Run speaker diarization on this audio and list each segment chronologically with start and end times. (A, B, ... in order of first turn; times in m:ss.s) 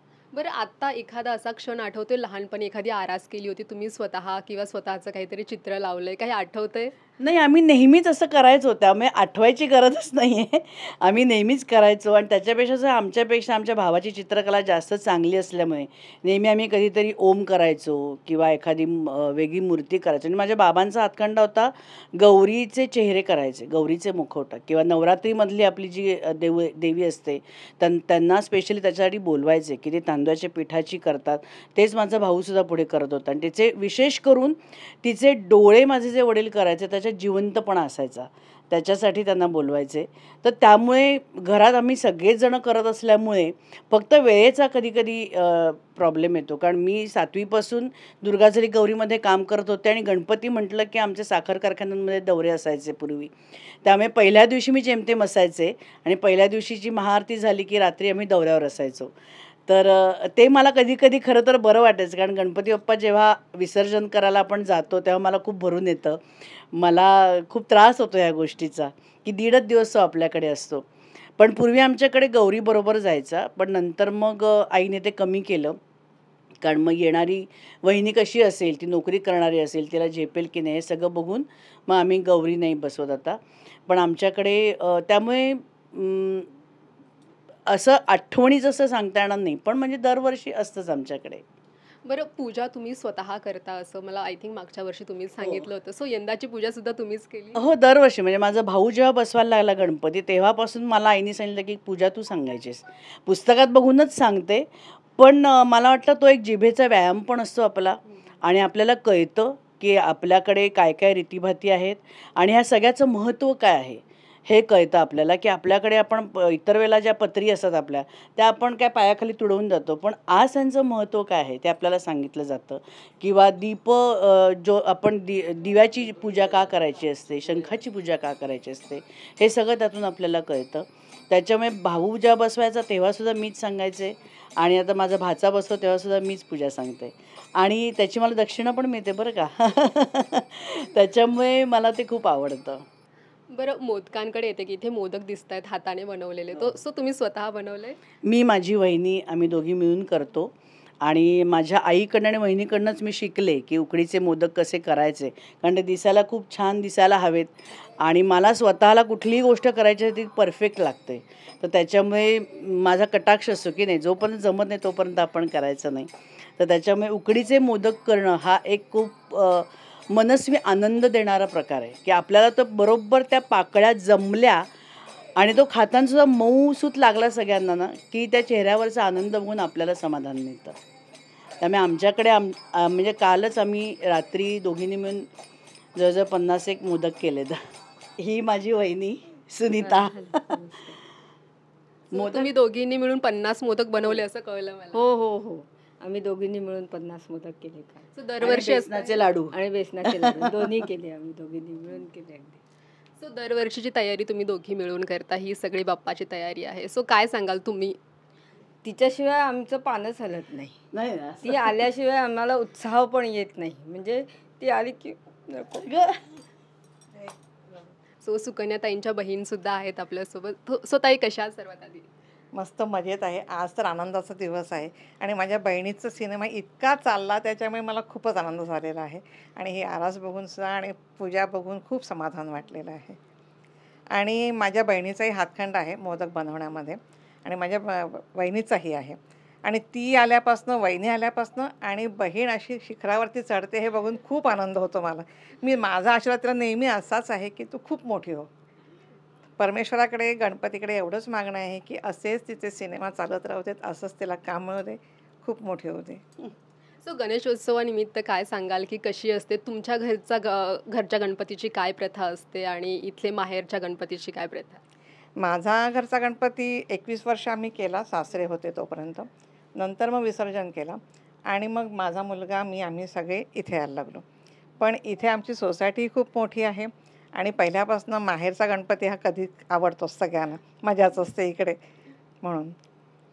0:00.3-0:07.0 A
0:07.2-0:53.3 B
0:53.8-0:59.1 B
0:59.7-1:06.2 B
1:06.7-1:10.9 B
1:11.4-1:15.8 B
1:16.6-1:26.5 B
1:27.7-1:31.4 B
1:32.0-1:37.6 A
1:35.4-1:35.7 B
1:37.6-2:22.9 B
2:23.5-2:28.0 A
2:28.2-2:54.7 B
2:55.4-3:00.8 B
3:01.6-3:05.3 B
3:06.0-3:07.6 B
3:08.2-3:10.6 B
3:09.7-3:11.0 C
3:12.1-3:15.1 A
3:12.1-3:12.5 B
3:14.9-3:18.1 C
3:18.2-3:19.2 A
3:18.4-3:20.7 B
3:19.5-3:22.6 C
3:23.2-3:28.0 A
3:28.8-3:30.8 C
3:30.9-3:31.8 B
3:31.4-3:35.9 C
3:35.8-3:36.2 B
3:38.2-3:42.1 A
3:42.5-3:53.2 D
3:54.1-4:08.5 D
4:09.6-4:16.2 D
4:17.0-4:24.8 A
4:25.4-4:34.2 D
4:34.8-4:41.8 D
4:42.4-4:42.7 D